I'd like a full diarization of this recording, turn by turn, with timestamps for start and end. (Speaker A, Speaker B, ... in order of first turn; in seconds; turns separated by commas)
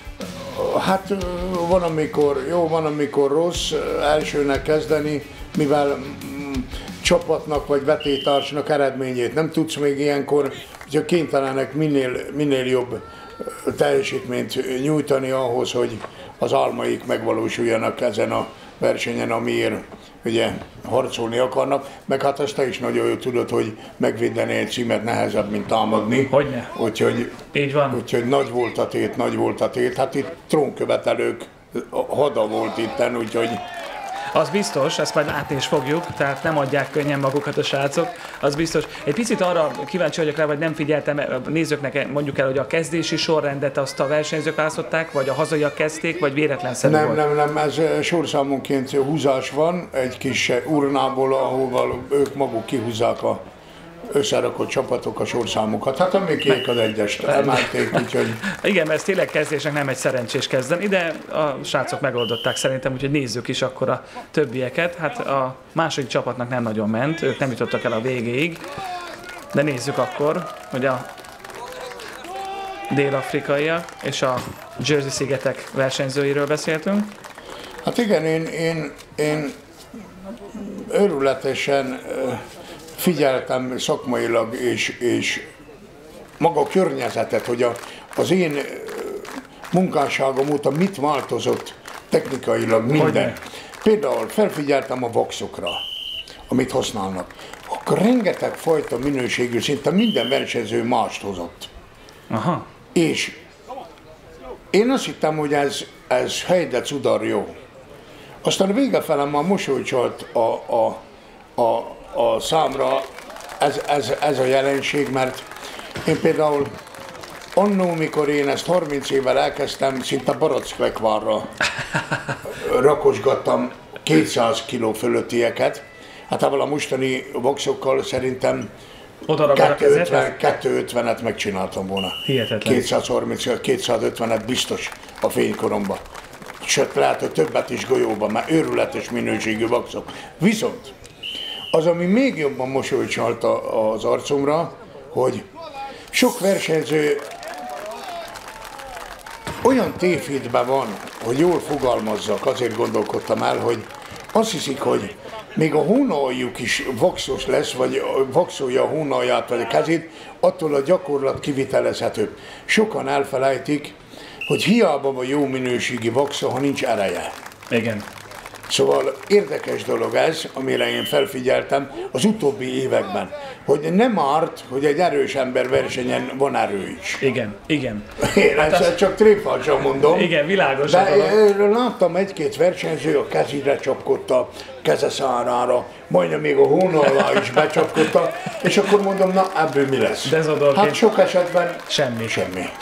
Speaker A: 0.3-33.6, Speaker B: 26.3-26.7, Speaker B: 27.5-28.0, Speaker B: 34.3-47.2, Speaker A: 46.8-53.4, Speaker A: 54.1-58.4, Speaker B: 57.2-68.6, Speaker B: 69.5-71.1, Speaker B: 72.9-77.1, Speaker A: 77.8-79.6, Speaker A: 80.5-85.5, Speaker A: 86.4-95.8, Speaker B: 92.9-93.4, Speaker A: 96.5-101.7, Speaker B: 102.3-102.7, Speaker A: 102.9-103.4, Speaker A: 104.7-107.5, Speaker A: 108.4-111.0, Speaker A: 111.6-115.5, Speaker A: 116.0-116.7, Speaker A: 117.6-121.6, Speaker A: 122.5-128.7, Speaker B: 129.3-130.4, Speaker A: 129.5-136.0, Speaker B: 132.2-132.9, Speaker A: 136.6-140.9, Speaker A: 141.7-145.5, Speaker A: 146.1-147.3, Speaker A: 149.6-167.4, Speaker B: 167.7-168.1, Speaker A: 168.7-177.2, Speaker B: 177.2-179.0, Speaker A: 178.2-192.7, Speaker B: 180.0-181.3, Speaker B: 190.2-191.0, Speaker B: 191.9-192.4